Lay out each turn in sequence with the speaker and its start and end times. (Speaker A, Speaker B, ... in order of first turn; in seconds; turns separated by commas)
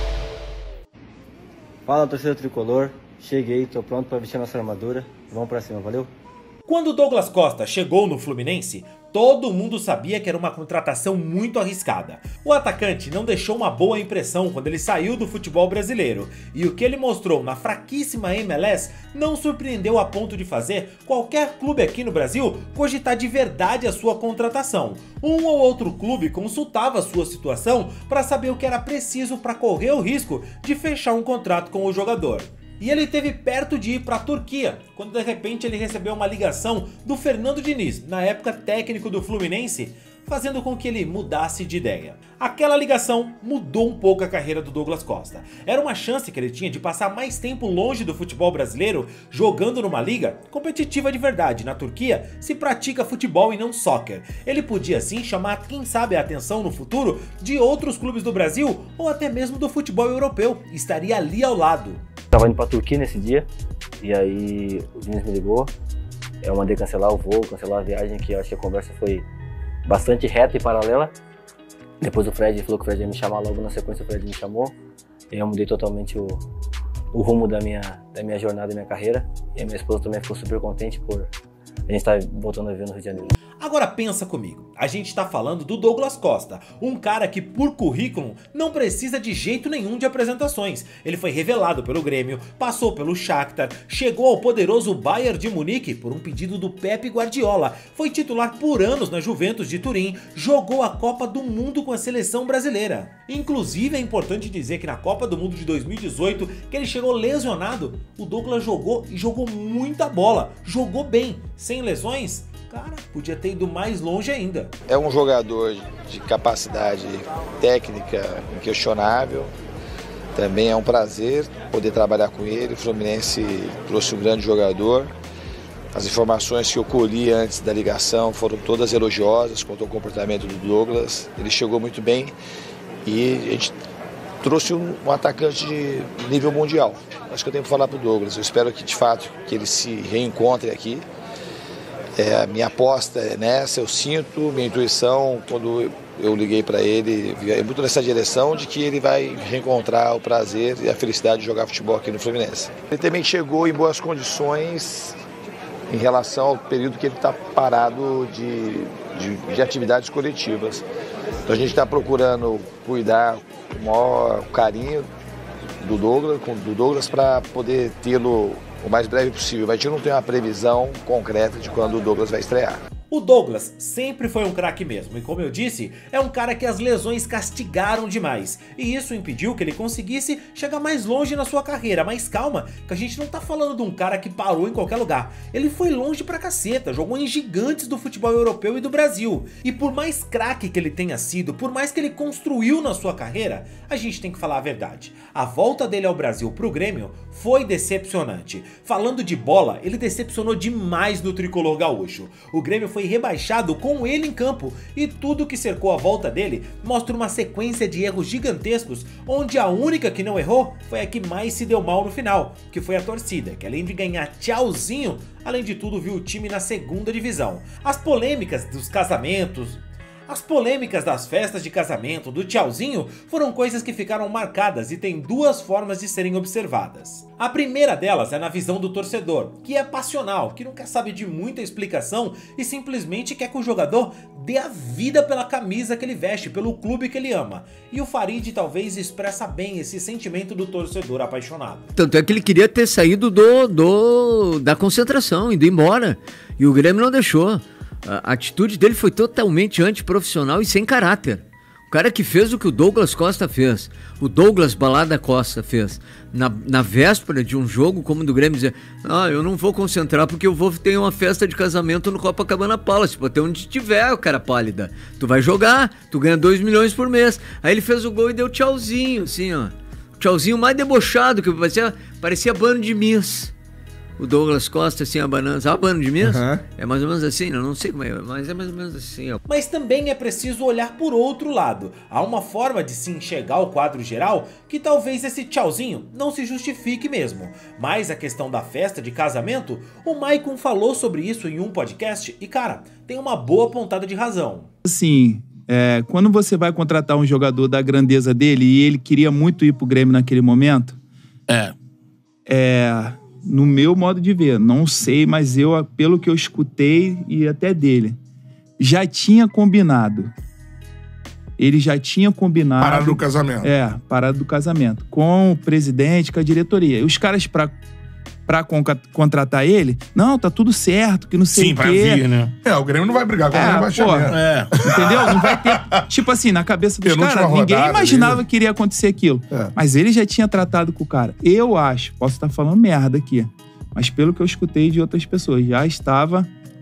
Speaker A: 1.9-6.1, Speaker B: 6.7-62.0, Speaker A: 62.3-63.5, Speaker A: 64.0-65.7, Speaker A: 66.4-69.2, Speaker A: 69.9-71.1, Speaker A: 72.0-74.7, Speaker A: 75.3-76.4, Speaker A: 77.1-81.3, Speaker A: 81.9-83.3, Speaker B: 83.6-114.7, Speaker C: 114.9-119.5, Speaker C: 120.3-125.1, Speaker C: 125.9-132.3, Speaker C: 133.0-133.7, Speaker C: 134.4-141.0, Speaker C: 142.2-155.2, Speaker C: 155.9-160.8, Speaker C: 161.4-165.1, Speaker C: 165.8-172.8, Speaker B: 173.1-241.9, Speaker D: 241.9-273.5, Speaker D: 274.2-279.4, Speaker B: 279.4-294.7, Speaker E: 294.8-301.0, Speaker E: 302.4-308.1, Speaker E: 308.8-310.3, Speaker E: 311.6-317.7, Speaker F: 312.8-313.7, Speaker E: 318.5-322.2, Speaker F: 321.5-326.1, Speaker E: 323.5-324.4, Speaker E: 324.9-336.5, Speaker F: 327.0-328.4